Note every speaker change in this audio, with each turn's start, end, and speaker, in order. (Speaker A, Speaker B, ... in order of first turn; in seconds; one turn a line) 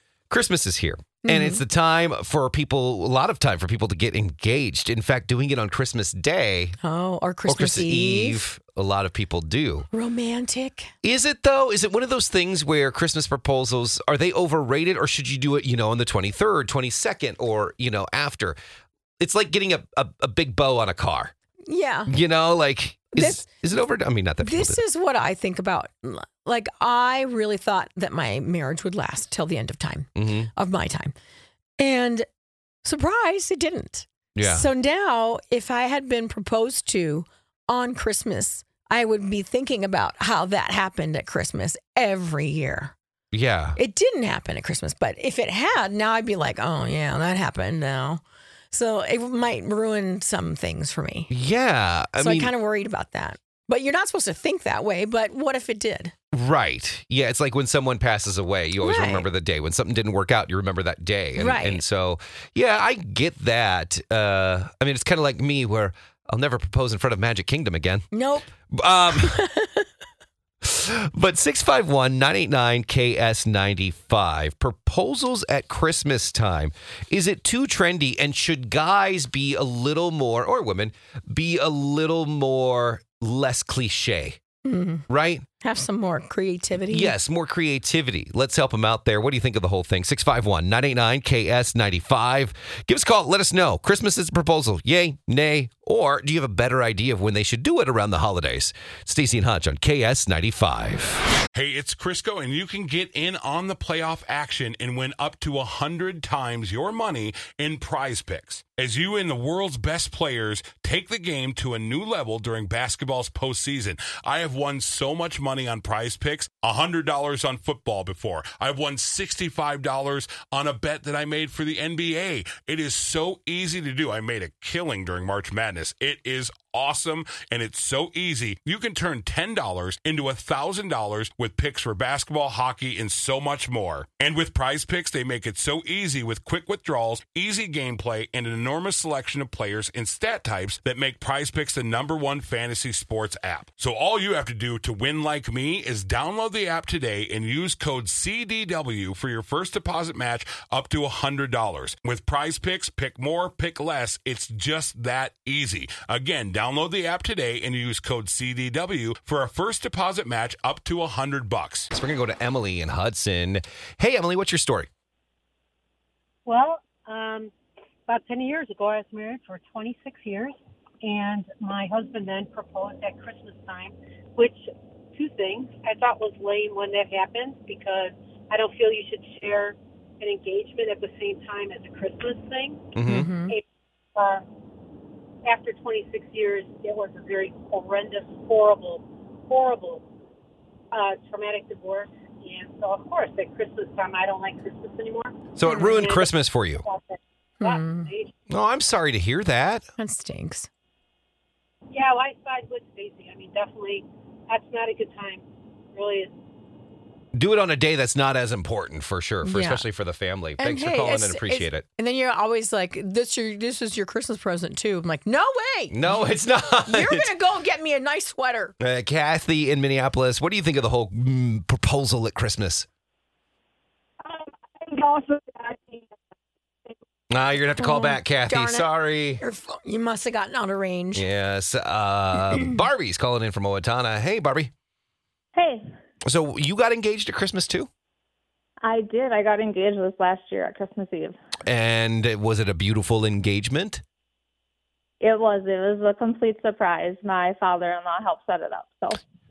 Speaker A: 0.3-6.8
Speaker B: 1.2-1.6
Speaker B: 6.8-8.4
Speaker A: 7.5-9.9
Speaker B: 9.9-10.9
Speaker A: 11.0-18.6
Speaker A: 19.2-21.3
Speaker B: 21.7-22.1
Speaker A: 22.1-24.8
Speaker B: 23.1-23.5
Speaker B: 24.4-31.1
Speaker A: 30.2-30.5
Speaker B: 31.8-32.2
Speaker B: 32.8-42.9
Speaker A: 34.3-34.6
Speaker A: 43.3-43.8
Speaker B: 43.8-51.3
Speaker A: 51.3-52.5
Speaker B: 52.2-56.1
Speaker A: 56.3-68.0
Speaker B: 58.8-59.3
Speaker B: 61.4-61.8
Speaker B: 68.1-68.5
Speaker A: 68.7-69.3
Speaker B: 69.1-69.9
Speaker A: 70.6-84.4
Speaker B: 84.6-85.1
Speaker A: 85.1-85.4
Speaker B: 85.6-87.1
Speaker A: 86.9-101.2
Speaker C: 101.5-161.9
Speaker A: 161.9-164.9
Speaker D: 166.4-167.5
Speaker D: 168.1-183.6
Speaker A: 182.9-183.3
Speaker B: 183.1-183.5
Speaker D: 184.2-184.4
Speaker D: 185.4-190.0
Speaker D: 190.9-198.3
Speaker A: 195.6-196.8
Speaker B: 195.7-196.0
Speaker B: 197.6-198.1
Speaker A: 198.5-199.8
Speaker B: 200.0-200.7
Speaker D: 201.9-206.3
Speaker A: 207.3-211.8
Speaker B: 209.4-209.8
Speaker B: 210.6-218.8
Speaker A: 215.9-217.3
Speaker A: 218.8-222.9
Speaker E: 225.0-225.9
Speaker A: 227.3-229.4
Speaker B: 227.8-231.2
Speaker A: 231.2-234.7
Speaker E: 235.5-235.8
Speaker A: 236.2-237.9
Speaker E: 238.8-241.3
Speaker A: 241.7-244.0
Speaker E: 245.2-249.2